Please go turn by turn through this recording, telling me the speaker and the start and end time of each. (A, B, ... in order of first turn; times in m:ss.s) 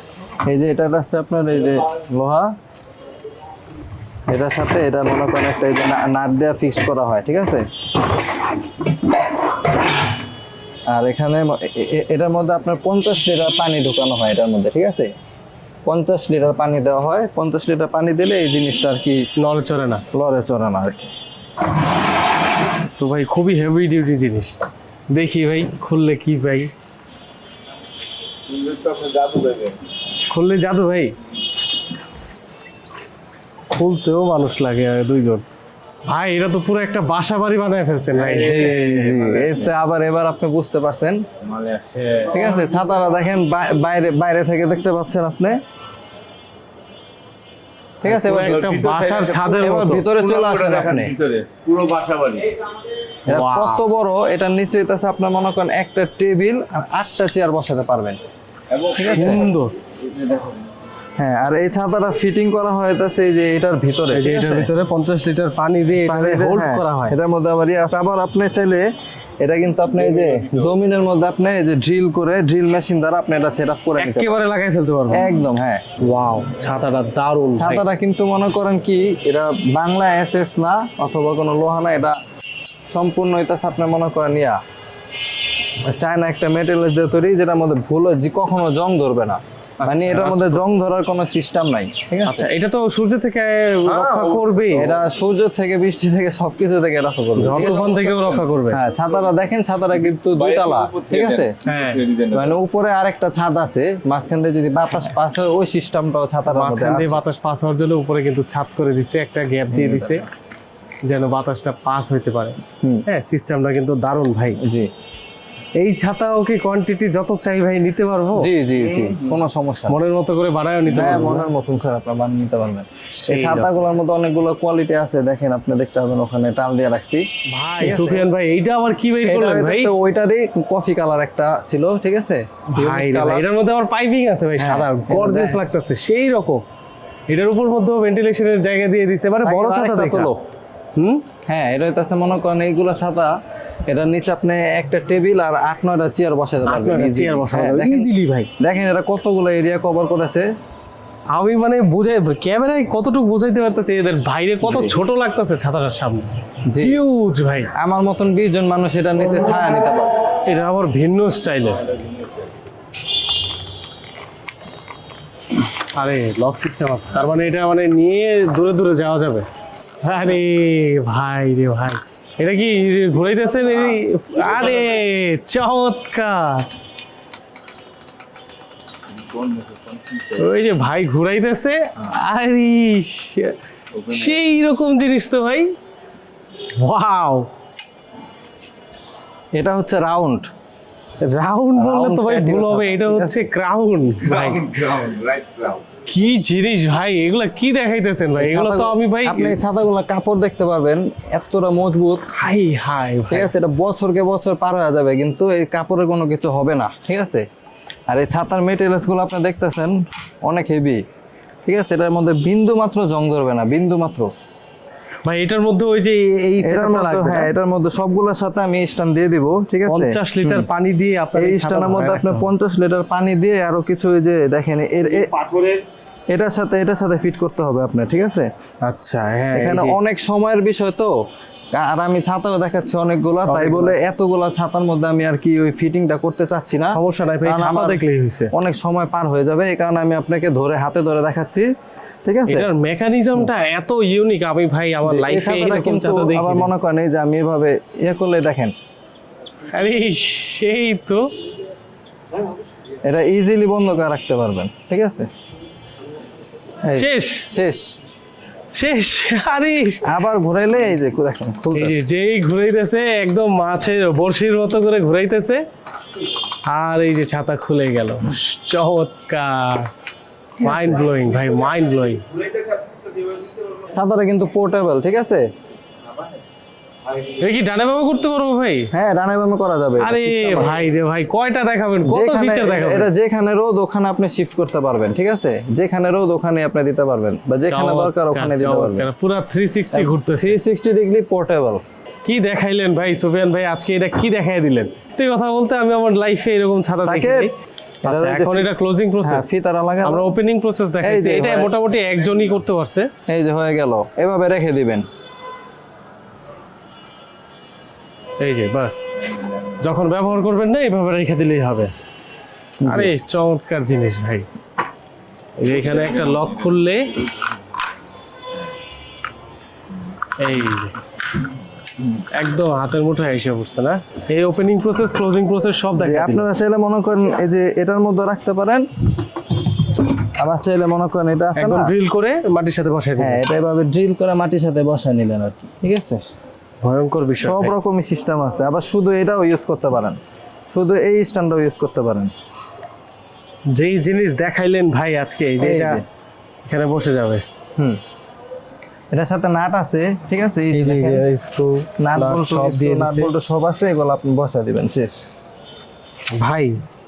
0:00.4-0:02.5 A
0:04.3-0:07.7 A
0:10.9-0:15.1 A
0:15.8-0:19.2 A
0:19.4-0:20.0 B
0:20.1-0:21.1 A
0:23.0-0:26.7 B
0:28.6-0:29.7 C
0:30.3-0:31.2 B
0:33.7-0:35.4 B
0:36.0-0:38.8 B
0:38.3-0:41.2 A
0:41.5-0:42.3 C
0:42.3-0:45.6 A
0:48.0-0:48.9 A
0:48.0-0:50.1 B
0:48.6-0:49.4 C
0:49.6-0:51.2 A
0:50.3-0:52.5 C
0:53.3-0:53.8 B
0:53.3-0:58.2 A
0:58.9-0:59.4 A
0:59.0-0:59.7 B
1:00.2-1:00.4 C
1:01.2-1:04.7 A
1:04.1-1:07.2 B
1:06.0-1:08.8 A
1:09.4-1:14.3 A
1:14.0-1:15.3 B
1:15.1-1:15.8 A
1:16.0-1:17.8 B
1:17.6-1:22.2 A
1:22.9-1:24.6 A
1:25.9-1:32.4 A
1:29.8-1:30.6 B
1:32.2-1:34.9 B
1:34.7-1:38.0 A
1:37.4-1:38.8 B
1:38.7-1:41.6 A
1:40.5-1:41.2 C
1:41.6-1:42.1 B
1:41.9-1:42.4 C
1:42.3-1:47.2 A
1:46.5-1:50.2 B
1:49.7-1:50.2 A
1:51.0-1:54.6 B
1:52.8-1:53.1 A
1:54.6-1:54.9 A
1:55.8-1:58.5 B
1:58.4-2:00.0 A
1:59.9-2:01.5 B
2:00.9-2:07.3 A
2:03.2-2:03.7 B
2:07.5-2:09.9 B
2:07.8-2:08.2 A
2:09.3-2:13.4 A
2:12.7-2:16.6 B
2:14.6-2:15.6 A
2:17.3-2:20.3 B
2:19.4-2:20.4 A
2:21.0-2:21.2 B
2:21.5-2:23.3 A
2:23.9-2:30.5 A
2:26.6-2:28.5 B
2:31.3-2:37.7 B
2:34.6-2:34.9 A
2:36.6-2:37.0 A
2:37.7-2:40.1 A
2:40.4-2:41.9 B
2:45.9-2:49.4 B
2:50.0-2:56.7 B
2:59.2-3:00.2 C
3:00.3-3:05.7 B
3:06.8-3:07.5 B
3:09.5-3:10.5 A
3:11.2-3:15.0 B
3:11.7-3:13.5 A
3:14.8-3:15.8 C
3:16.0-3:19.6 B
3:18.4-3:22.3 A
3:22.3-3:23.5 B
3:23.3-3:27.4 A
3:28.1-3:31.0 A
3:31.6-3:34.3 A
3:35.2-3:37.5 B
3:36.6-3:40.6 A
3:39.9-3:42.5 B
3:41.4-3:45.3 A
3:45.4-3:45.8 B
3:46.3-3:48.5 A
3:48.8-3:50.0 B
3:49.5-3:51.1 A
3:51.7-4:01.6 A
3:53.4-3:54.0 B
3:56.9-3:58.5 B
4:02.2-4:02.7 A
4:02.5-4:06.7 B
4:05.0-4:08.7 A
4:09.7-4:11.3 B
4:13.0-4:15.3 A
4:16.8-4:17.9 A
4:16.9-4:17.5 B
4:18.7-4:20.2 B
4:20.0-4:21.9 A
4:21.7-4:25.6 B
4:26.7-4:29.9 B
4:30.6-4:31.0 A
4:30.6-4:32.2 B
4:33.8-4:35.4 A
4:37.3-4:38.9 B
4:38.9-4:40.7 A
4:40.0-4:43.1 B
4:42.0-4:49.0 A
4:47.6-4:50.6 B
4:49.9-4:51.8 A
4:52.2-4:57.5 B
4:57.0-4:57.5 A
4:58.0-4:58.7 A
4:58.0-4:59.5 B
4:59.2-5:00.3 A
5:00.0-5:03.1 B
5:01.0-5:01.7 A
5:03.3-5:05.0 A
5:08.4-5:09.1 B
5:09.8-5:11.9 B
5:12.8-5:13.1 A
5:12.8-5:14.5 B
5:15.6-5:17.3 B
5:20.4-5:21.0 B
5:22.3-5:26.5 B
5:25.9-5:28.9 A
5:30.2-5:31.9 A
5:31.6-5:33.4 B
5:33.2-5:36.2 A
5:36.8-5:37.7 B
5:37.4-5:40.2 A
5:40.7-5:42.3 A
5:43.7-5:46.0 B
5:45.6-5:46.0 A
5:46.6-5:47.4 B
5:49.1-5:51.2 A
5:50.7-5:53.3 B
5:52.0-5:55.2 A
5:56.4-5:56.8 B